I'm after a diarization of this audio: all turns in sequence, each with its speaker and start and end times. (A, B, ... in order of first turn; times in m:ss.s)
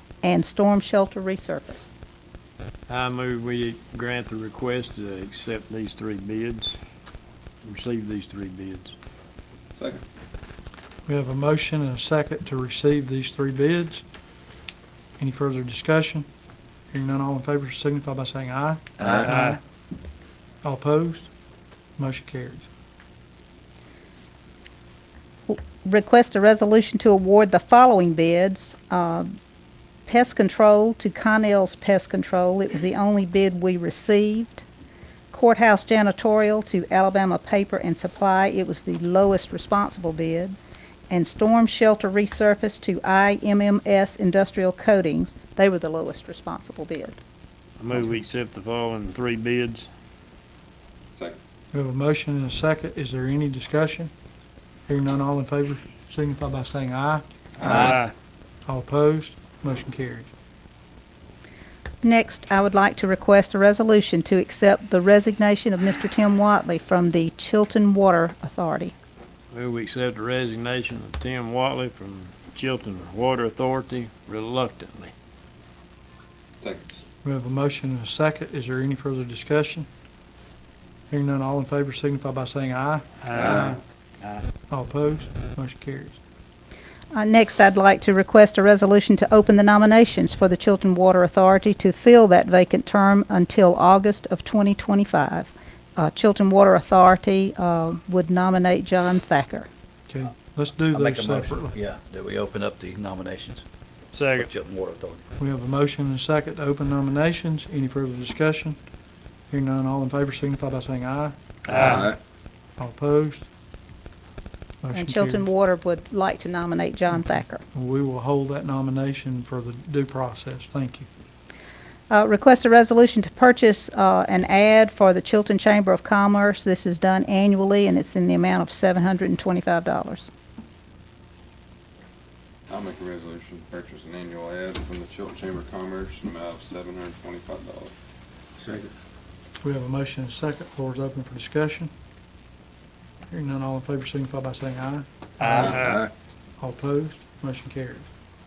0:00.2-0:02.0 A
0:02.9-0:06.8 B
0:07.6-0:08.9 B
0:11.1-0:14.0 C
0:15.2-0:16.3 C
0:16.9-0:19.6 C
0:19.0-0:19.6 B
0:20.6-0:21.3 C
0:22.0-0:22.6 C
0:25.5-0:29.3 A
0:30.1-0:34.6 A
0:35.3-0:40.6 A
0:41.1-0:47.2 A
0:47.8-0:49.9 B
0:51.7-0:54.1 C
0:54.9-0:58.0 C
0:57.6-0:58.1 B
0:58.6-1:00.3 C
1:02.0-1:08.9 A
1:09.5-1:15.1 B
1:16.6-1:17.0 D
1:17.2-1:19.9 C
1:21.1-1:23.8 C
1:23.2-1:23.8 B
1:24.7-1:26.2 C
1:27.1-1:39.7 A
1:40.1-1:41.8 C
1:40.9-1:43.6 E
1:44.1-1:44.5 B
1:44.3-1:45.2 E
1:45.4-1:48.8 C
1:49.5-1:51.3 C
1:51.7-1:52.1 B
1:52.8-1:53.4 C
1:54.8-1:55.5 C
1:54.9-1:57.6 A
1:57.2-2:01.1 C
2:02.1-2:10.3 A
2:12.7-2:17.9 D
2:18.6-2:18.9 D
2:19.6-2:21.9 C
2:23.3-2:25.8 C
2:25.4-2:26.0 B
2:25.5-2:26.0 D
2:26.6-2:28.1 C